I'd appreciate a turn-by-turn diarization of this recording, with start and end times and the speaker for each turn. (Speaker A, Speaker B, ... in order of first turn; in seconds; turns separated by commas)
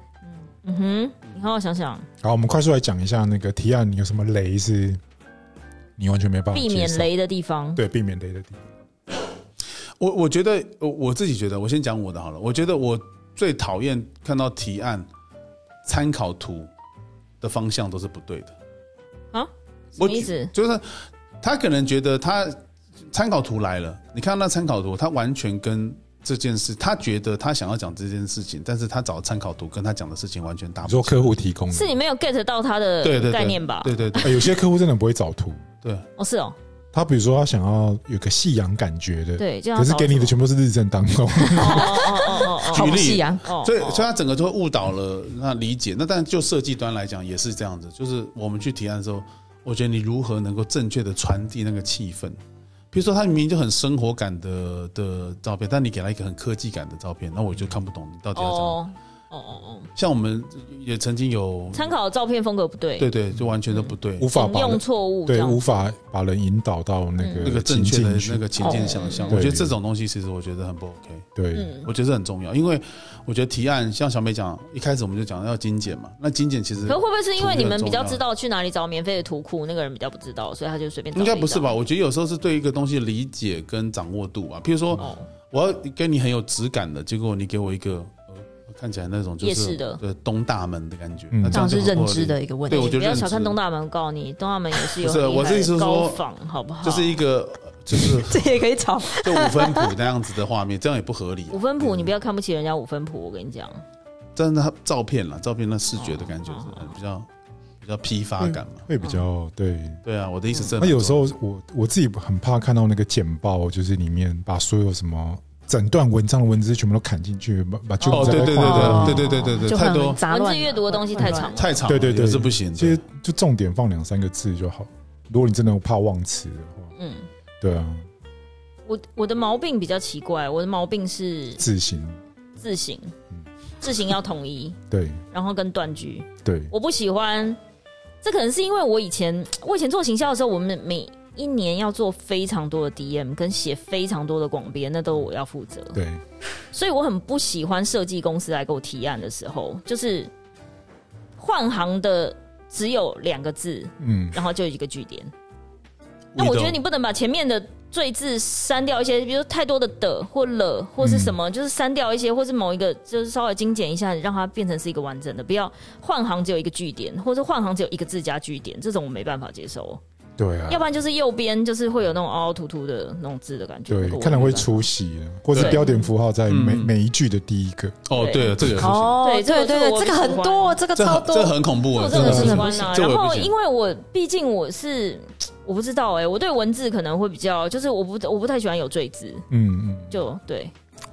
Speaker A: 0.4-2.1, Speaker B: 2.2-5.0, Speaker B: 6.0-7.1, Speaker A: 6.5-7.8, Speaker B: 7.8-8.6, Speaker C: 10.0-15.1, Speaker C: 15.8-16.7, Speaker C: 17.4-18.5, Speaker A: 19.3-20.5, Speaker C: 20.0-20.9, Speaker C: 21.4-22.6, Speaker C: 23.1-31.4, Speaker B: 30.8-32.0, Speaker A: 31.7-34.3, Speaker C: 33.0-34.5, Speaker B: 34.2-35.6, Speaker A: 36.2-36.6, Speaker B: 36.9-42.1, Speaker A: 39.4-40.4, Speaker D: 41.4-43.4, Speaker A: 41.5-44.1, Speaker C: 42.6-52.4, Speaker C: 52.9-58.8, Speaker A: 58.4-59.9, Speaker C: 60.0-61.9, Speaker A: 61.7-63.1, Speaker C: 63.0-64.3, Speaker A: 63.7-65.8, Speaker B: 64.2-68.5, Speaker A: 67.2-67.5, Speaker C: 67.4-71.3, Speaker D: 68.6-69.1, Speaker A: 68.6-69.4, Speaker B: 69.3-69.8, Speaker B: 71.4-71.7, Speaker A: 71.5-71.9, Speaker C: 71.8-78.2, Speaker A: 76.9-81.8, Speaker C: 81.2-93.6, Speaker A: 84.9-85.3, Speaker A: 89.4-90.0, Speaker B: 91.3-91.8, Speaker D: 91.5-93.1, Speaker A: 92.8-97.2, Speaker C: 95.0-96.2, Speaker C: 96.8-98.5, Speaker D: 98.0-99.9, Speaker C: 99.2-102.1, Speaker A: 101.5-103.8, Speaker C: 104.4-107.3, Speaker A: 106.0-107.0, Speaker C: 107.8-108.9, Speaker B: 108.9-110.0, Speaker C: 110.0-111.3, Speaker B: 110.8-119.3, Speaker A: 118.0-119.6, Speaker C: 118.1-120.2, Speaker D: 118.6-121.6, Speaker A: 120.3-121.9, Speaker C: 121.6-123.0, Speaker B: 121.9-126.9, Speaker A: 127.0-127.3, Speaker B: 127.6-128.1, Speaker A: 128.9-131.6, Speaker B: 131.6-132.2, Speaker A: 132.6-133.2, Speaker A: 133.8-134.8, Speaker B: 134.9-135.2, Speaker A: 135.3-137.6, Speaker B: 136.4-136.7, Speaker A: 138.2-146.0, Speaker B: 145.9-146.2, Speaker A: 146.7-150.3, Speaker A: 151.4-155.3, Speaker B: 154.0-154.4, Speaker C: 156.3-156.8, Speaker A: 156.4-170.0, Speaker B: 161.0-161.4, Speaker B: 170.4-170.8, Speaker A: 170.7-174.8, Speaker B: 173.9-177.9, Speaker C: 175.5-175.8, Speaker A: 175.6-175.9, Speaker C: 176.5-176.9, Speaker C: 178.1-179.2, Speaker A: 178.1-178.6, Speaker D: 178.8-181.6, Speaker A: 179.2-180.8, Speaker C: 180.9-183.5, Speaker A: 181.9-189.5, Speaker B: 182.1-182.6, Speaker D: 182.1-182.9, Speaker B: 189.5-190.2, Speaker A: 190.1-190.7